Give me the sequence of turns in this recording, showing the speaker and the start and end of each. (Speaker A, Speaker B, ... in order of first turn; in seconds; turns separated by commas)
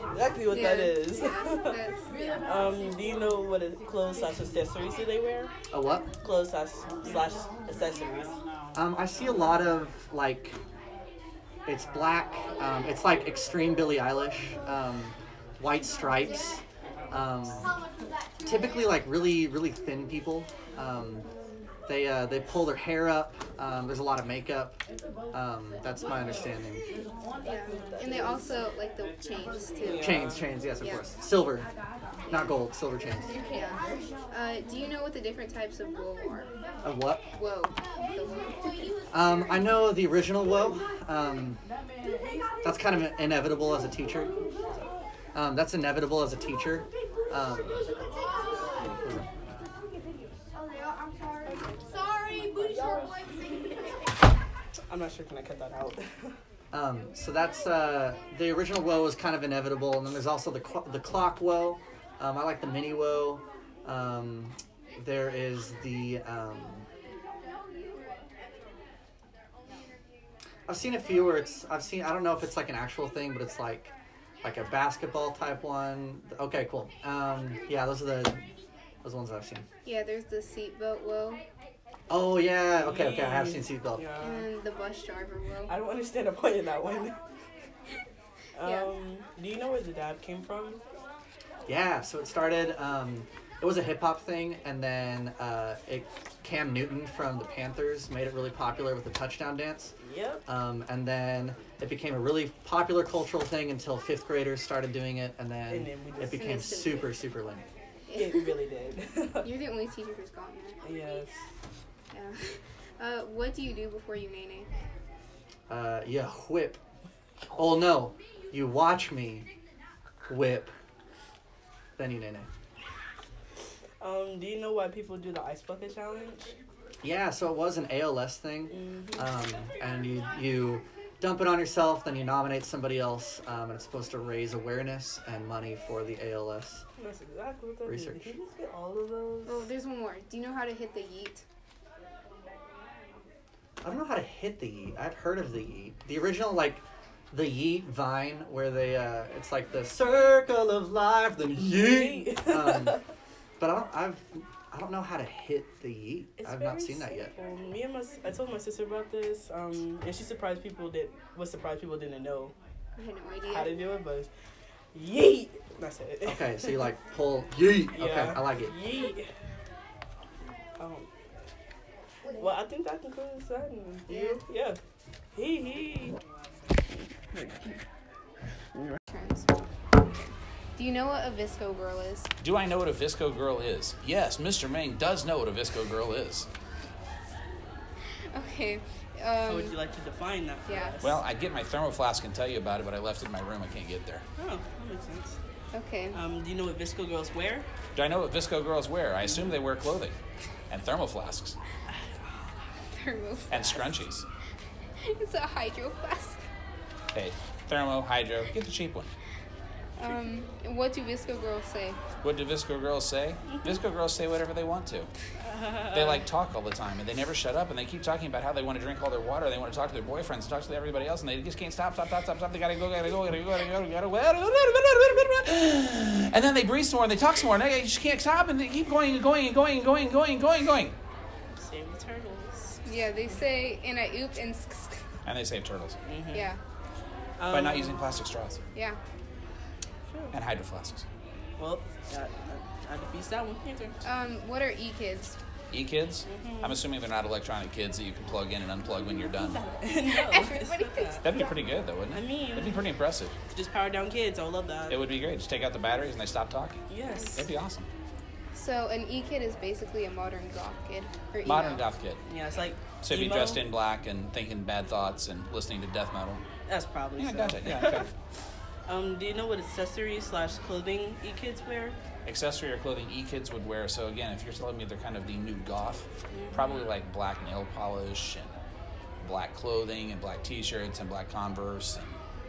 Speaker A: 0.1-1.8, Speaker B: 0.5-2.4, Speaker A: 2.4-5.5, Speaker C: 5.7-6.1, Speaker A: 6.2-8.4, Speaker C: 8.7-10.6, Speaker C: 11.7-17.7, Speaker C: 18.4-21.3, Speaker C: 21.9-24.8, Speaker C: 25.3-26.8, Speaker B: 27.4-30.2, Speaker A: 29.9-30.3, Speaker C: 29.9-31.7, Speaker B: 30.8-31.1, Speaker C: 32.3-33.4, Speaker B: 33.4-36.5, Speaker C: 36.8-37.3, Speaker B: 37.3-38.9, Speaker C: 39.1-41.6, Speaker C: 42.6-44.3, Speaker C: 45.3-47.8, Speaker C: 48.8-49.2, Speaker A: 51.4-51.8, Speaker A: 54.9-56.3, Speaker C: 56.7-66.9, Speaker C: 70.7-78.5, Speaker C: 79.0-79.7, Speaker B: 79.8-81.4, Speaker C: 82.1-84.0, Speaker A: 82.8-84.5, Speaker B: 84.2-85.7, Speaker A: 85.7-87.2, Speaker A: 88.6-90.8, Speaker B: 88.6-88.9, Speaker C: 91.7-99.9, Speaker A: 100.0-100.4, Speaker C: 100.5-107.6, Speaker A: 105.7-106.4, Speaker B: 106.3-107.2, Speaker B: 108.1-108.5, Speaker A: 108.1-109.5, Speaker B: 109.4-110.8, Speaker A: 110.8-111.4, Speaker B: 112.1-114.7, Speaker C: 115.7-116.8, Speaker C: 117.5-119.5, Speaker C: 120.3-120.7, Speaker C: 122.0-122.5, Speaker A: 124.0-126.5, Speaker C: 127.0-136.8, Speaker A: 128.7-129.3, Speaker A: 137.0-139.7, Speaker C: 137.9-138.3, Speaker B: 139.4-141.4, Speaker C: 143.8-153.0, Speaker A: 151.7-153.0, Speaker C: 153.6-157.3, Speaker A: 156.4-162.5, Speaker B: 162.9-163.7, Speaker A: 163.5-164.3, Speaker A: 164.9-166.9, Speaker C: 166.2-168.8, Speaker A: 167.9-169.3, Speaker A: 170.8-171.1, Speaker A: 172.4-174.8, Speaker B: 174.1-174.4, Speaker A: 175.3-176.2, Speaker A: 177.3-177.8, Speaker B: 179.1-182.3, Speaker D: 182.4-186.5, Speaker B: 188.3-189.8, Speaker A: 189.4-191.2, Speaker B: 190.7-191.0, Speaker D: 191.0-194.2, Speaker A: 194.4-195.4, Speaker B: 195.7-196.2, Speaker A: 196.1-197.7, Speaker D: 197.9-200.2, Speaker A: 199.3-199.5, Speaker D: 200.7-201.6, Speaker B: 202.9-204.1, Speaker D: 203.5-204.2, Speaker B: 205.1-206.4, Speaker D: 207.1-209.1, Speaker B: 210.0-212.0, Speaker D: 212.2-215.1, Speaker A: 213.5-213.8, Speaker A: 215.4-216.2, Speaker D: 215.9-230.9, Speaker A: 231.6-232.8, Speaker B: 232.8-235.1, Speaker D: 235.2-236.0, Speaker A: 236.1-236.5, Speaker B: 236.3-236.6, Speaker A: 237.4-238.0, Speaker D: 237.5-238.6, Speaker B: 238.7-239.0, Speaker A: 240.1-240.3, Speaker D: 240.3-241.0, Speaker A: 241.6-244.0, Speaker B: 244.0-245.4, Speaker D: 245.7-249.6, Speaker A: 246.3-246.8, Speaker A: 249.3-251.2, Speaker B: 249.9-251.6, Speaker D: 251.2-253.3, Speaker A: 252.1-252.8, Speaker A: 253.5-255.1, Speaker D: 254.9-256.8, Speaker A: 256.9-257.4, Speaker B: 257.0-257.4, Speaker D: 257.3-257.9, Speaker B: 258.5-261.8, Speaker D: 261.4-262.2, Speaker A: 262.2-263.6, Speaker D: 263.0-266.4, Speaker A: 266.6-268.1, Speaker D: 267.2-268.1, Speaker A: 268.9-271.9, Speaker D: 272.2-278.5, Speaker A: 276.3-276.8, Speaker D: 279.2-282.1